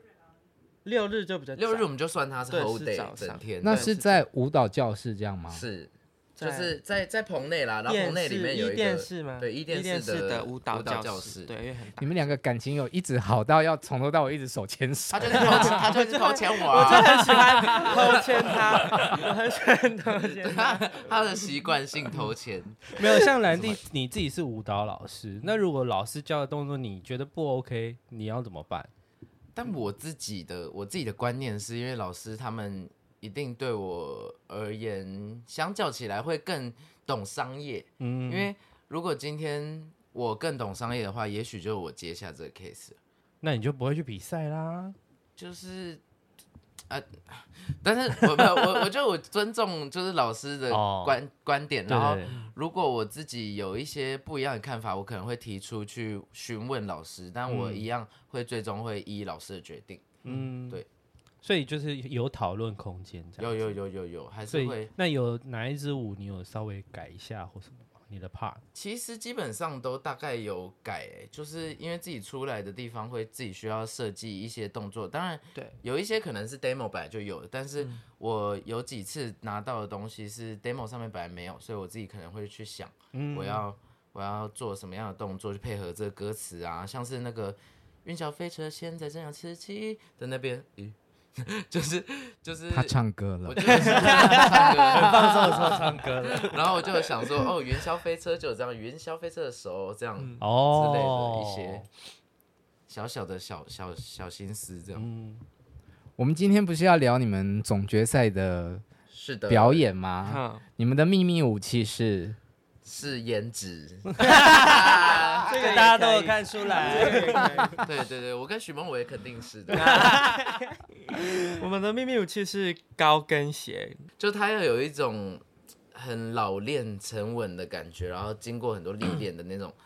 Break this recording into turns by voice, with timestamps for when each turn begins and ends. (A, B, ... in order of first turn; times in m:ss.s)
0:00.8-0:01.9 A
0:01.6-0:04.0 B
0:02.5-0:04.2 A
0:03.6-0:05.7 C
0:05.5-0:11.5 B
0:06.4-0:06.8 A
0:07.8-0:12.3 A
0:12.0-0:15.8 C
0:15.1-0:19.2 B
0:15.5-0:21.3 A
0:20.2-0:23.8 B
0:23.0-0:28.9 D
0:29.5-0:43.0 B
0:38.0-0:38.5 D
0:43.4-0:45.0 D
0:45.4-0:46.0 B
0:46.9-1:00.8 B
0:50.7-0:51.2 D
0:51.9-0:52.3 D
0:52.2-0:52.5 A
0:57.5-0:57.8 D
1:00.2-1:00.8 D
1:01.4-1:03.8 D
1:03.4-1:04.9 B
1:04.5-1:08.6 D
1:08.7-1:32.9 B
1:23.1-1:23.6 D
1:32.7-1:34.6 C
1:33.5-1:41.8 B
1:33.8-1:37.0 D
1:40.4-1:41.8 D
1:42.9-1:45.1 B
1:44.9-1:45.4 D
1:46.2-1:48.8 C
1:49.1-1:49.8 B
1:49.5-1:52.4 C
1:50.2-1:50.6 A
1:52.8-1:55.6 B
1:54.2-1:57.8 D
1:55.4-1:57.8 A
1:57.8-2:00.1 B
1:59.7-2:00.6 A
1:59.8-2:00.6 D
2:01.5-2:04.0 A
2:04.2-2:09.7 B